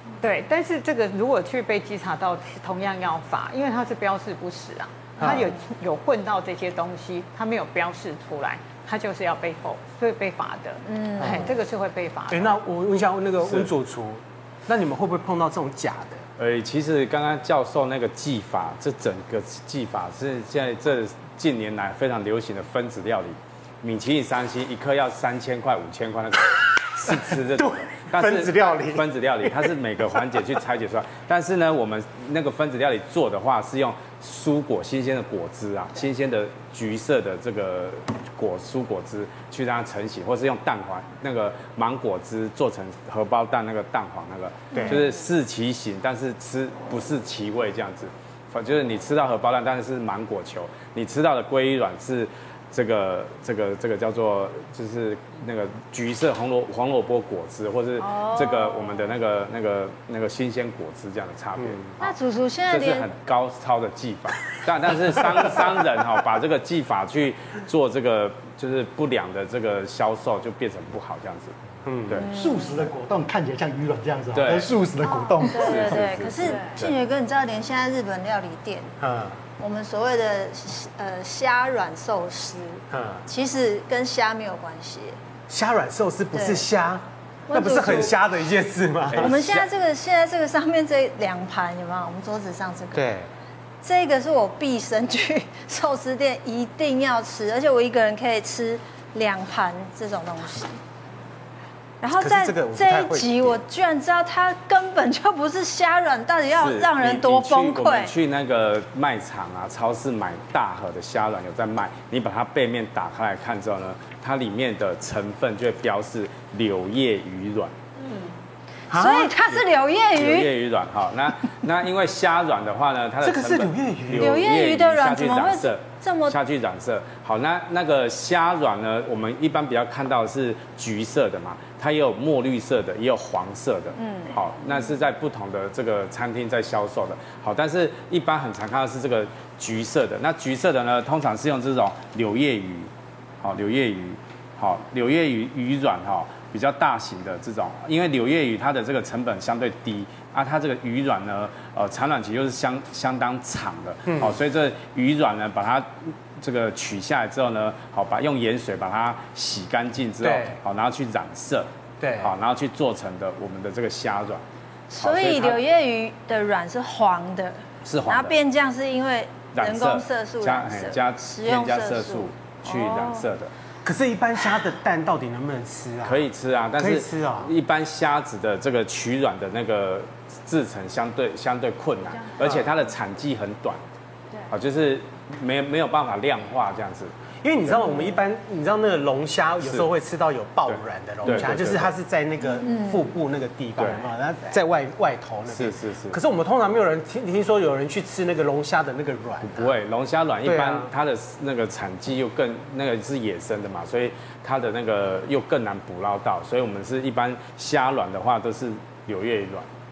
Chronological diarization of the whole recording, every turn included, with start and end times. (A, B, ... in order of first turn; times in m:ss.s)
0:00.2-0:12.6 A
0:05.2-0:05.5 B
0:10.8-0:11.5 C
0:11.2-0:11.6 B
0:12.3-0:16.2 B
0:13.4-0:13.7 D
0:16.4-1:02.2 D
0:27.1-0:29.7 B
0:44.7-0:45.0 B
0:44.7-0:45.1 C
0:58.0-0:59.1 C
1:01.6-1:01.9 B
1:02.0-1:03.1 C
1:02.7-1:11.6 D
1:11.9-1:12.2 B
1:12.2-1:12.8 C
1:12.3-1:15.8 E
1:14.3-1:14.7 D
1:15.0-1:18.9 C
1:15.6-1:16.9 D
1:19.0-1:19.4 B
1:19.6-1:25.2 C
1:22.9-1:23.2 B
1:25.5-1:29.7 B
1:26.3-1:26.6 C
1:27.5-1:28.2 C
1:29.2-1:33.0 C
1:32.9-1:33.3 B
1:33.8-1:40.8 C
1:42.0-1:48.2 C
1:42.1-1:43.6 B
1:46.6-1:57.7 D
1:58.9-1:59.4 B
1:58.9-2:00.5 C
2:00.2-2:22.9 D
2:03.2-2:04.4 B
2:04.2-2:06.4 C
2:14.0-2:14.8 C
2:23.4-2:44.4 D
2:34.1-2:34.4 B
2:40.2-2:40.6 B
2:42.0-2:42.3 B
2:44.9-2:53.3 C
2:45.0-2:45.6 D
2:47.8-2:48.4 D
2:49.5-2:53.5 D
2:53.8-2:57.6 B
2:56.0-3:03.8 D
3:02.4-3:02.7 B
3:04.5-3:07.1 D
3:07.4-3:19.8 B
3:07.6-3:08.0 D
3:09.6-3:09.9 D
3:10.7-3:12.0 D
3:12.6-3:13.1 C
3:15.5-3:16.2 D
3:19.4-3:29.7 D
3:20.4-3:20.9 B